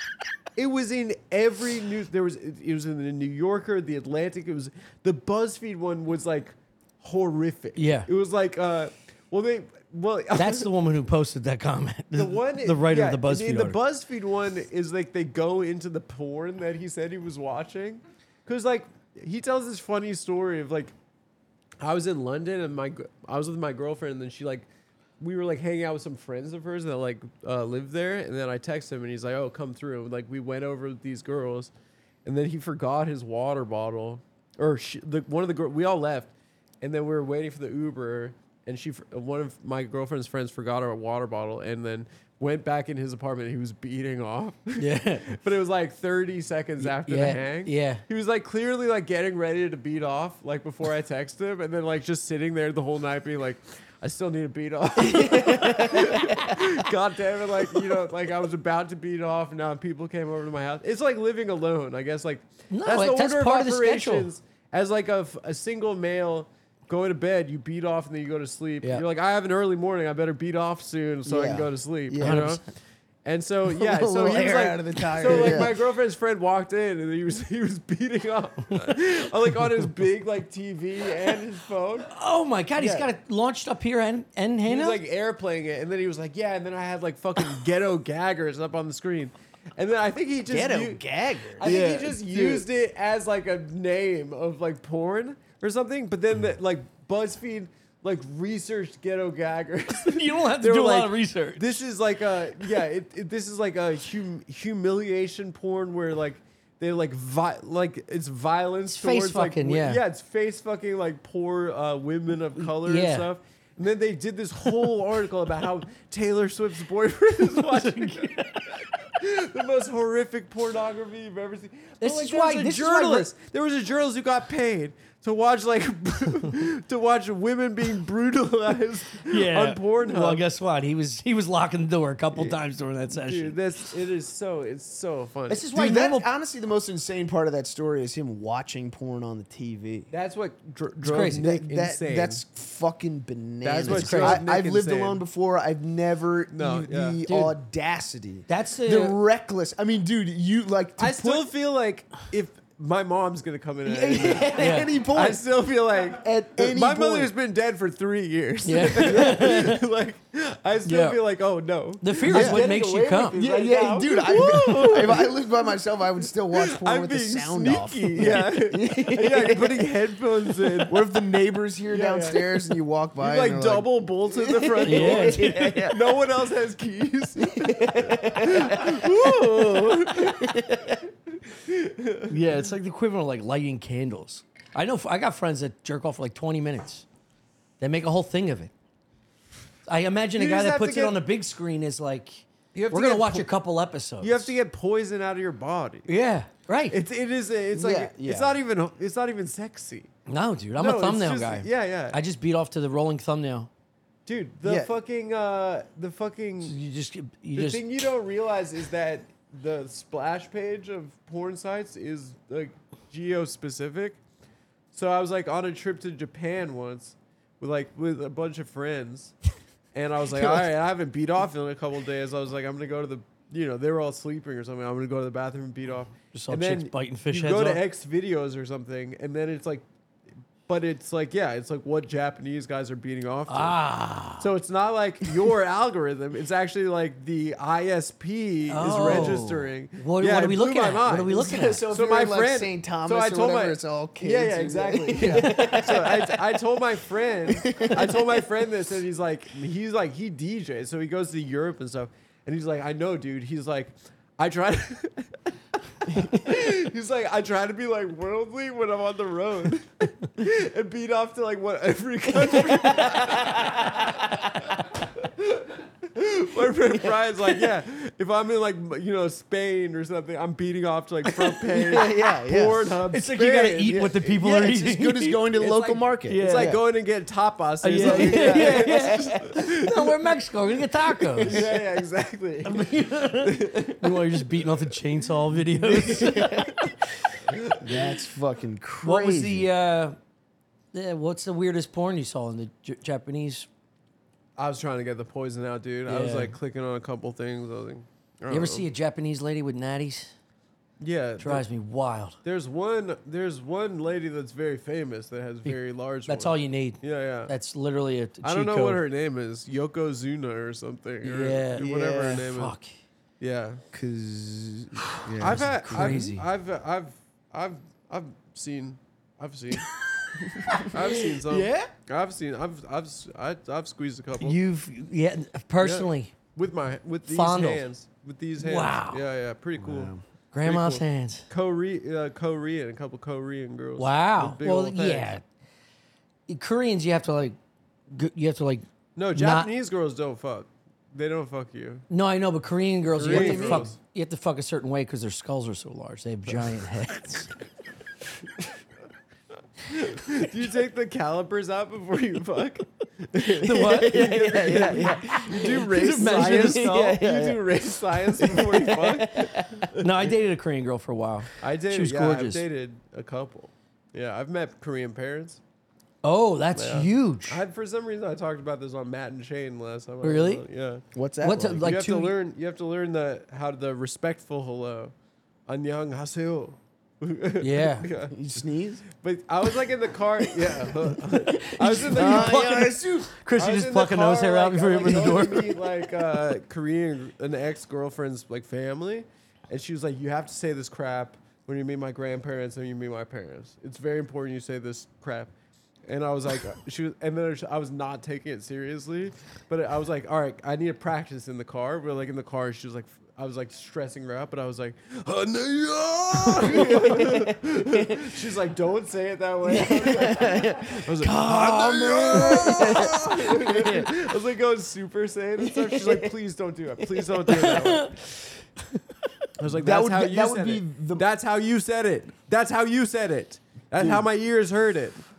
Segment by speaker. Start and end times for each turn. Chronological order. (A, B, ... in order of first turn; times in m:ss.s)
0:00.6-0:10.7 A
0:07.8-0:08.1 B
0:10.4-0:13.8 B
0:12.1-0:20.9 A
0:21.8-0:24.7 A
0:25.2-0:31.7 A
0:32.2-0:36.3 A
0:36.8-1:12.6 A
0:44.8-0:45.3 B
0:46.8-0:48.0 B
0:55.0-0:56.5 C
1:02.7-1:04.3 B
1:11.2-1:12.5 C
1:12.2-1:12.6 B
1:13.2-1:22.1 A
1:13.9-1:14.7 B
1:14.1-1:15.8 C
1:15.3-1:15.6 B
1:22.1-1:25.0 B
1:22.8-1:23.1 C
1:24.6-1:31.0 A
1:30.5-1:32.6 C
1:31.6-2:10.4 A
1:31.6-1:32.1 B
1:40.0-1:41.8 B
1:48.9-1:50.0 B
1:52.6-1:53.3 B
1:57.6-1:58.9 B
2:02.0-2:03.3 B
2:09.2-2:13.6 B
2:13.1-2:15.6 A
2:15.5-2:16.3 B
2:15.7-2:20.1 C
2:20.1-2:22.4 A
2:21.0-2:21.5 B
2:21.2-2:31.5 C
2:23.6-2:25.2 A
2:23.8-2:24.4 B
2:26.5-2:27.2 A
2:27.3-2:27.6 B
2:28.5-2:29.2 B
2:31.0-2:45.4 A
2:33.8-2:35.4 C
2:34.5-2:34.9 B
2:36.1-2:37.3 C
2:38.6-2:39.8 B
2:40.8-2:41.2 B
2:42.0-2:43.4 B
2:42.3-2:42.6 C
2:43.4-2:49.9 C
2:46.5-2:51.1 A
2:50.7-2:56.2 C
2:51.9-2:52.6 A
2:53.2-3:02.4 A
2:54.8-2:55.8 B
2:57.4-3:01.0 C
3:02.3-3:07.1 B
3:07.8-3:08.7 B
3:09.9-3:14.5 B
3:10.4-3:11.2 A
3:12.7-3:13.5 A
3:14.2-3:16.1 A
3:16.1-3:17.0 B
3:16.9-3:20.1 A
3:17.7-3:18.5 C
3:20.3-3:23.7 B
3:20.8-3:22.2 A
3:24.2-3:26.8 A
3:24.6-3:24.9 C
3:26.6-3:27.8 B
3:27.6-3:34.2 A
3:34.9-3:39.3 A
3:39.9-3:49.8 A
3:40.4-3:40.6 C
3:46.3-3:47.8 B
3:50.7-3:53.8 A
3:53.5-3:54.5 B
3:54.4-4:01.4 A
3:58.7-4:01.8 B
4:01.3-4:06.6 C
4:01.9-4:15.3 A
4:07.5-4:08.5 C
4:16.1-4:34.2 A
4:16.1-4:16.4 C
4:22.5-4:24.1 C
4:31.8-4:32.9 C
4:33.1-4:36.8 B
4:34.0-4:36.8 C
4:36.4-4:40.3 A
4:37.8-4:41.7 B
4:38.0-4:39.4 C
4:41.4-4:41.8 C
4:41.4-4:44.9 A
4:42.6-4:46.9 B
4:45.9-4:46.9 C
4:47.5-4:48.1 A
4:47.8-4:49.7 C
4:49.0-4:50.2 B
4:50.9-4:53.7 B
4:54.6-4:58.8 A
4:56.1-4:56.6 B
4:58.5-5:00.3 B
5:01.0-5:01.6 A
5:01.4-5:02.4 B
5:02.4-5:07.5 A
5:05.6-5:09.0 B
5:08.4-5:12.8 A
5:11.2-5:11.9 B
5:11.8-5:12.5 C
5:12.5-5:12.9 B
5:13.4-5:13.8 A
5:13.9-5:16.3 C
5:15.1-5:16.5 B
5:15.4-5:19.9 A
5:19.9-5:21.9 B
5:20.4-5:20.9 C
5:20.8-5:24.6 A
5:24.4-5:26.3 B
5:25.8-5:35.3 A
5:27.3-5:27.8 B
5:28.6-5:29.2 B
5:29.8-5:30.2 C
5:30.5-5:31.5 B
5:34.0-5:35.4 B
5:36.5-5:37.6 B
5:38.1-5:39.7 B
5:39.2-5:42.1 A
5:42.1-5:47.5 B
5:43.2-5:44.0 A
5:43.2-5:43.9 C
5:49.8-6:00.3 A
5:53.4-5:59.9 C
5:53.6-5:57.0 B
5:59.9-6:02.6 B
6:01.6-6:05.6 A
6:06.2-6:07.6 B
6:06.7-6:11.0 A
6:10.2-6:10.6 B
6:11.1-6:11.9 C
6:11.4-6:12.4 B
6:11.8-6:15.1 A
6:15.7-6:18.4 A
6:17.6-6:18.1 B
6:18.3-6:19.0 C
6:19.1-6:22.8 A
6:21.5-6:25.8 B
6:22.0-6:23.3 C
6:23.6-6:35.5 A
6:36.1-6:58.2 A
6:46.5-6:48.4 C
6:49.7-6:54.1 C
6:51.2-6:53.2 B
6:55.6-6:56.3 C
6:57.5-6:58.2 B
6:59.6-7:05.2 A
6:59.7-7:01.3 C
7:04.0-7:04.2 C